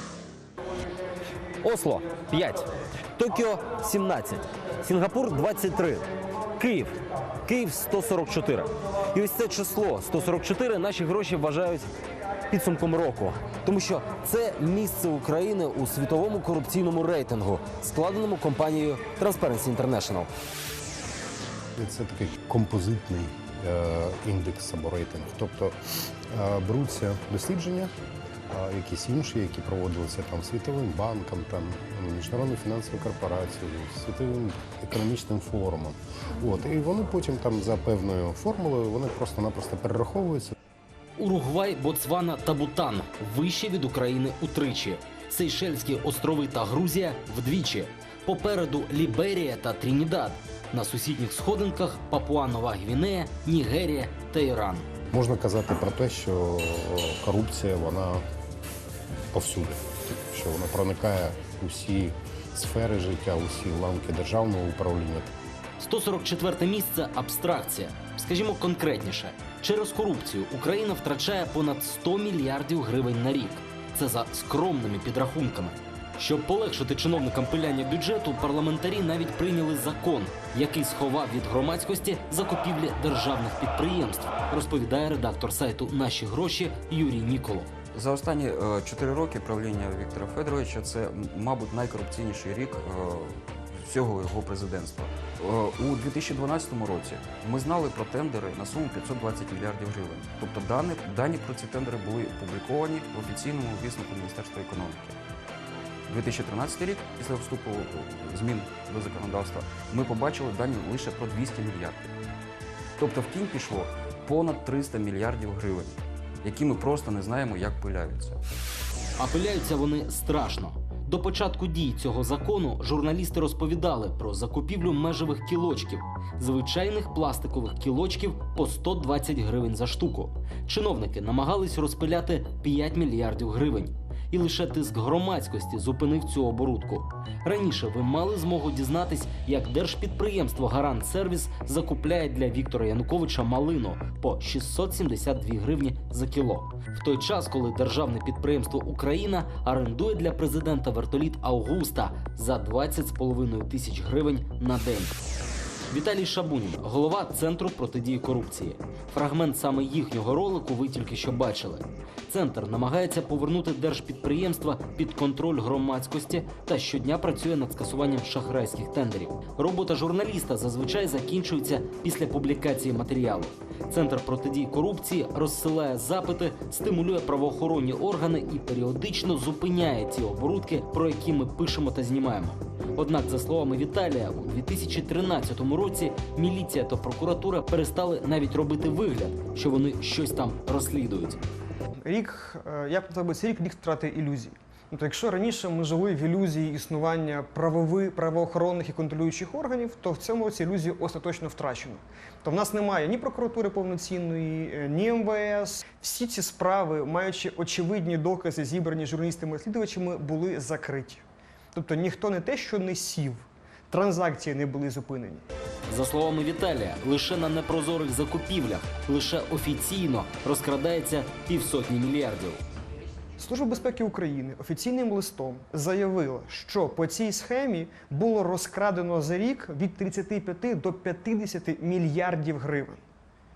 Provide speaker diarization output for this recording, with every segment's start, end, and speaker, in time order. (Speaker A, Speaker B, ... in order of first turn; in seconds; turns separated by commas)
Speaker A: 1.6-11.9, Speaker A: 12.5-20.3, Speaker B: 21.8-25.8, Speaker B: 26.3-27.9, Speaker B: 28.5-40.5, Speaker A: 41.2-54.9, Speaker B: 55.1-58.2, Speaker B: 59.3-65.3, Speaker A: 65.8-87.7, Speaker C: 87.9-105.2, Speaker C: 106.1-112.1, Speaker C: 113.0-118.4, Speaker A: 119.2-155.2, Speaker A: 155.9-191.4, Speaker D: 192.1-215.4, Speaker A: 215.9-222.6, Speaker D: 223.4-233.0